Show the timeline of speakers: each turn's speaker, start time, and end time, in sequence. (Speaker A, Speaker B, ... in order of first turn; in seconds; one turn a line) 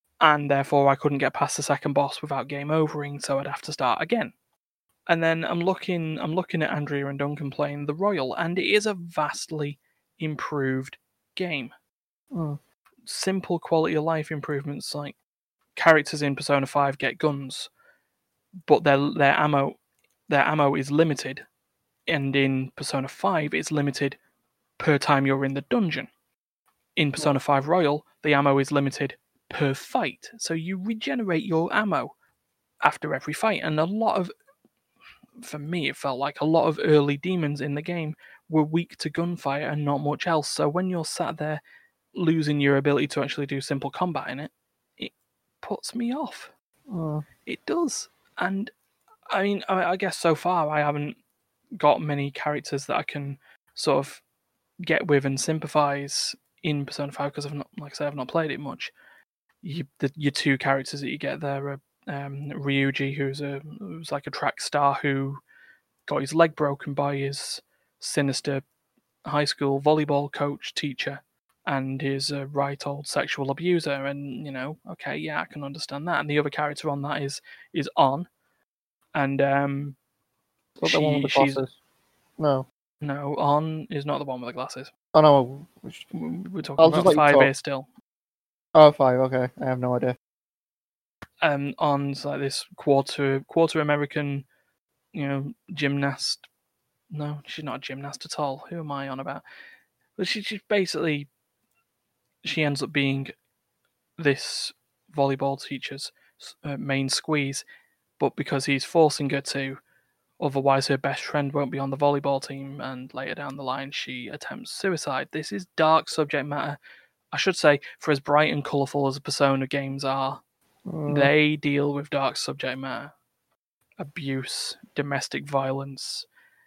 Speaker A: 0.2-4.3
Speaker A: 5.1-11.7
Speaker B: 12.3-12.6
Speaker A: 13.1-15.2
Speaker A: 15.8-17.7
Speaker A: 18.7-19.8
Speaker A: 20.3-21.4
Speaker A: 22.1-24.2
Speaker A: 24.8-26.1
Speaker A: 26.9-32.1
Speaker A: 32.8-34.3
Speaker A: 35.4-41.6
Speaker A: 42.1-46.5
Speaker B: 46.9-47.2
Speaker A: 47.5-48.7
Speaker A: 49.3-51.2
Speaker A: 51.8-54.2
Speaker A: 54.8-58.9
Speaker A: 59.6-65.4
Speaker A: 66.1-68.6
Speaker A: 69.2-78.3
Speaker A: 79.1-80.0
Speaker B: 80.8-81.7
Speaker A: 80.8-81.6
Speaker B: 82.4-82.7
Speaker A: 83.0-84.9
Speaker B: 85.1-86.0
Speaker A: 86.1-87.9
Speaker B: 86.8-87.5
Speaker B: 88.7-90.2
Speaker A: 91.4-94.5
Speaker A: 95.1-96.5
Speaker A: 97.1-99.4
Speaker A: 100.2-101.3
Speaker A: 102.4-103.3
Speaker A: 104.2-107.6
Speaker A: 108.2-109.8
Speaker A: 110.4-116.8
Speaker A: 117.3-120.4
Speaker B: 120.9-121.3
Speaker A: 121.1-123.1
Speaker A: 124.0-126.2